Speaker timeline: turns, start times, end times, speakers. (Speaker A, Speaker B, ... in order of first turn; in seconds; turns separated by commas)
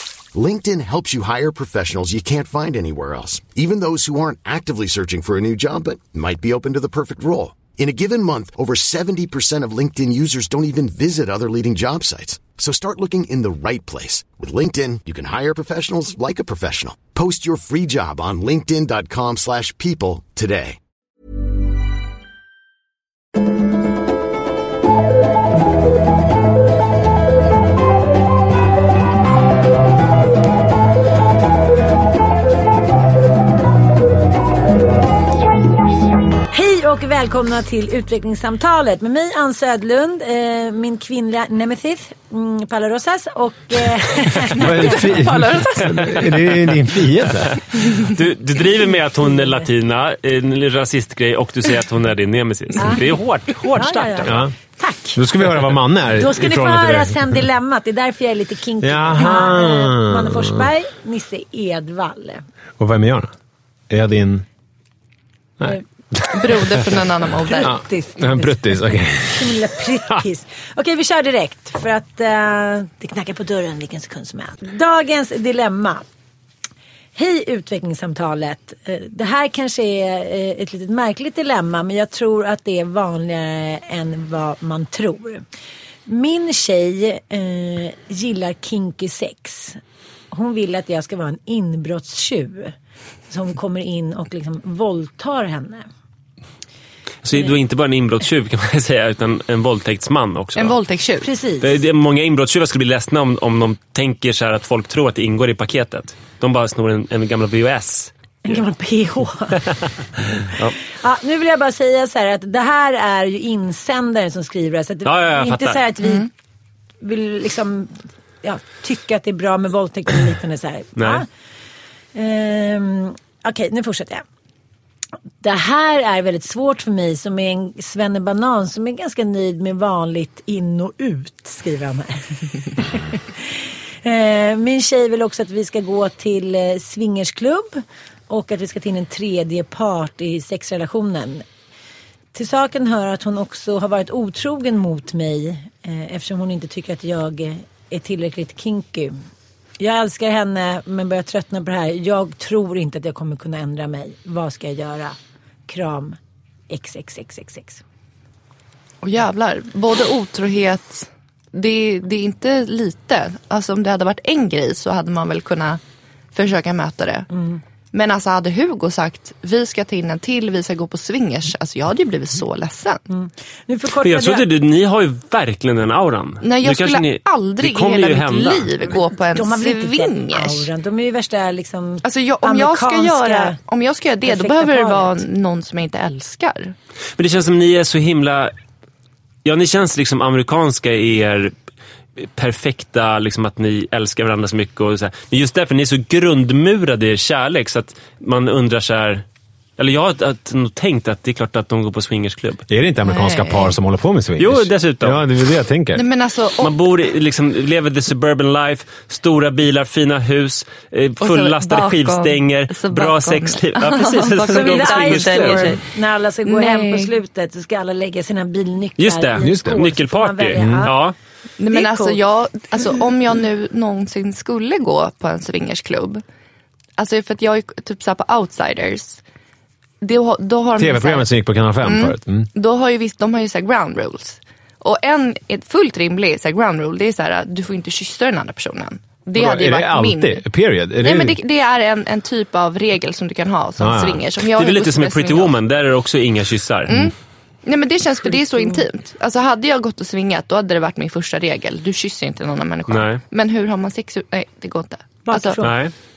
Speaker A: 0.3-20.8, Speaker B: 36.5-45.1, Speaker C: 44.6-46.1, Speaker D: 44.6-47.6, Speaker E: 46.1-46.6, Speaker E: 47.8-54.4, Speaker B: 52.8-53.0, Speaker B: 53.7-55.3, Speaker D: 54.2-54.5, Speaker D: 55.1-57.4, Speaker B: 56.1-62.4, Speaker D: 58.8-60.7, Speaker D: 62.8-63.3, Speaker D: 63.9-64.5, Speaker D: 65.6-67.0, Speaker C: 66.3-67.8, Speaker B: 67.5-76.0, Speaker D: 67.6-69.7, Speaker B: 77.2-85.4, Speaker B: 86.1-89.8, Speaker B: 90.3-92.8, Speaker B: 93.3-95.9, Speaker E: 97.2-100.8, Speaker C: 100.5-101.3, Speaker B: 101.2-101.7, Speaker E: 101.6-108.1, Speaker B: 108.5-109.6, Speaker E: 110.4-110.8, Speaker B: 111.0-116.3, Speaker E: 115.1-115.8, Speaker B: 117.0-121.3, Speaker E: 121.0-121.2, Speaker B: 122.2-124.2, Speaker B: 125.4-141.4, Speaker B: 142.3-149.2, Speaker B: 149.8-155.2, Speaker B: 155.7-156.2, Speaker B: 156.7-157.8, Speaker C: 159.0-165.8, Speaker C: 166.3-167.3, Speaker B: 167.3-167.6, Speaker C: 167.9-173.0, Speaker B: 173.1-174.4, Speaker E: 174.0-178.7, Speaker C: 176.4-180.7, Speaker B: 179.3-183.6, Speaker C: 182.0-186.8, Speaker B: 184.2-185.2, Speaker E: 187.2-188.5, Speaker E: 189.4-191.5, Speaker E: 192.2-199.2, Speaker E: 199.8-202.7, Speaker D: 202.7-206.0, Speaker C: 203.1-203.7, Speaker E: 204.4-205.2, Speaker C: 205.9-206.8, Speaker E: 206.6-215.8, Speaker C: 211.2-215.8, Speaker B: 214.5-220.9, Speaker C: 216.4-217.1, Speaker E: 219.0-221.1, Speaker D: 219.4-219.9, Speaker D: 220.6-220.9, Speaker C: 221.6-226.2, Speaker B: 221.7-222.2, Speaker C: 227.0-229.2, Speaker C: 230.0-231.3, Speaker D: 230.8-232.5, Speaker C: 231.8-240.4, Speaker D: 239.4-241.4, Speaker C: 241.0-245.6, Speaker D: 243.8-244.2, Speaker E: 244.6-247.0, Speaker C: 246.9-247.1, Speaker C: 247.7-255.7, Speaker E: 252.9-253.2, Speaker B: 255.3-255.7, Speaker E: 255.6-255.9